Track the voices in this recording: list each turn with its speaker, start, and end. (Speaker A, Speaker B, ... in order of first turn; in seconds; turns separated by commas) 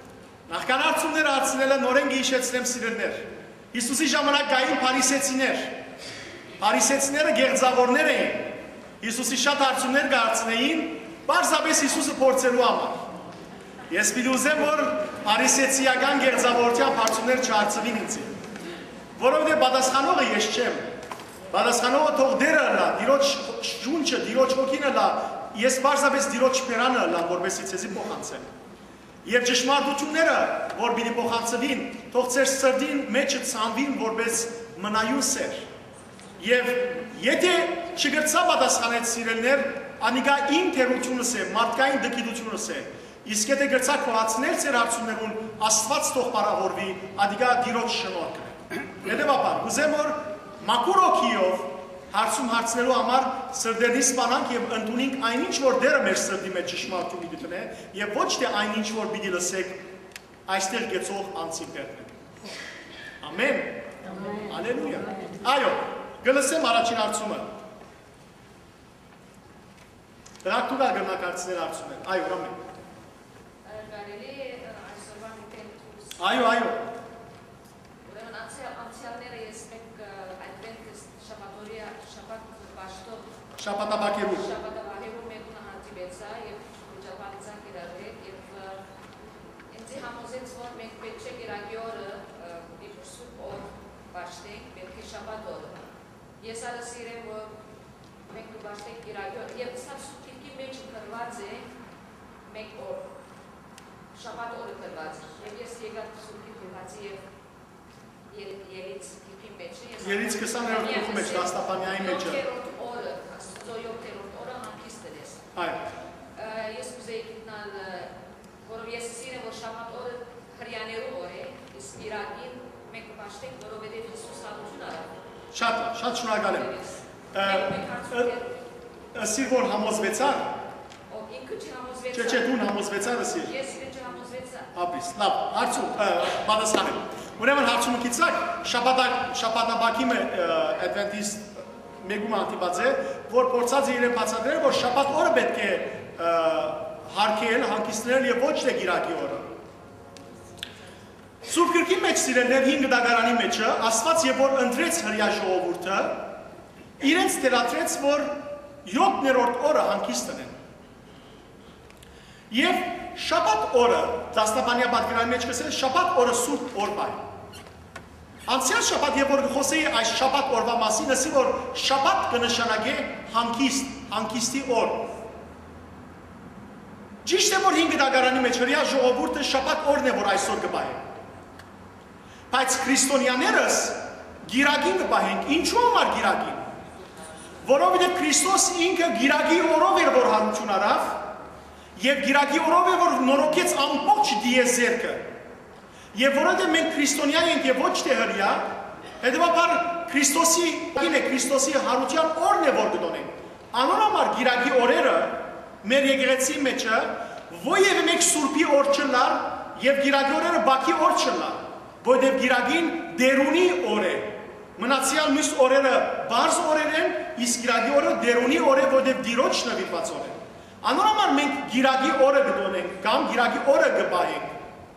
Speaker A: 0.5-5.8, Speaker A: 6.6-13.1, Speaker A: 13.9-18.3, Speaker A: 19.2-20.9, Speaker A: 21.5-28.5, Speaker A: 29.2-35.7, Speaker A: 36.4-59.9, Speaker A: 60.5-62.1, Speaker A: 63.2-67.5, Speaker A: 70.4-72.6, Speaker B: 73.6-76.4, Speaker A: 76.2-76.8, Speaker B: 78.0-83.3, Speaker A: 83.6-84.5, Speaker B: 84.1-88.8, Speaker B: 89.7-95.9, Speaker B: 96.4-97.6, Speaker B: 98.3-101.7, Speaker B: 102.5-103.1, Speaker B: 104.1-107.2, Speaker B: 108.3-115.5, Speaker A: 110.0-112.4, Speaker A: 115.5-115.8, Speaker B: 116.3-125.2, Speaker A: 125.5-126.7, Speaker B: 126.4-128.7, Speaker A: 127.3-128.3, Speaker A: 129.1-130.5, Speaker B: 131.1-132.6, Speaker A: 132.1-133.5, Speaker B: 133.4-134.7, Speaker A: 134.8-149.5, Speaker A: 151.5-156.4, Speaker A: 157.0-160.6, Speaker A: 162.5-167.2, Speaker A: 168.5-175.1, Speaker A: 177.2-181.1, Speaker A: 182.5-186.7, Speaker A: 187.6-191.3, Speaker A: 192.0-195.3, Speaker A: 196.1-224.6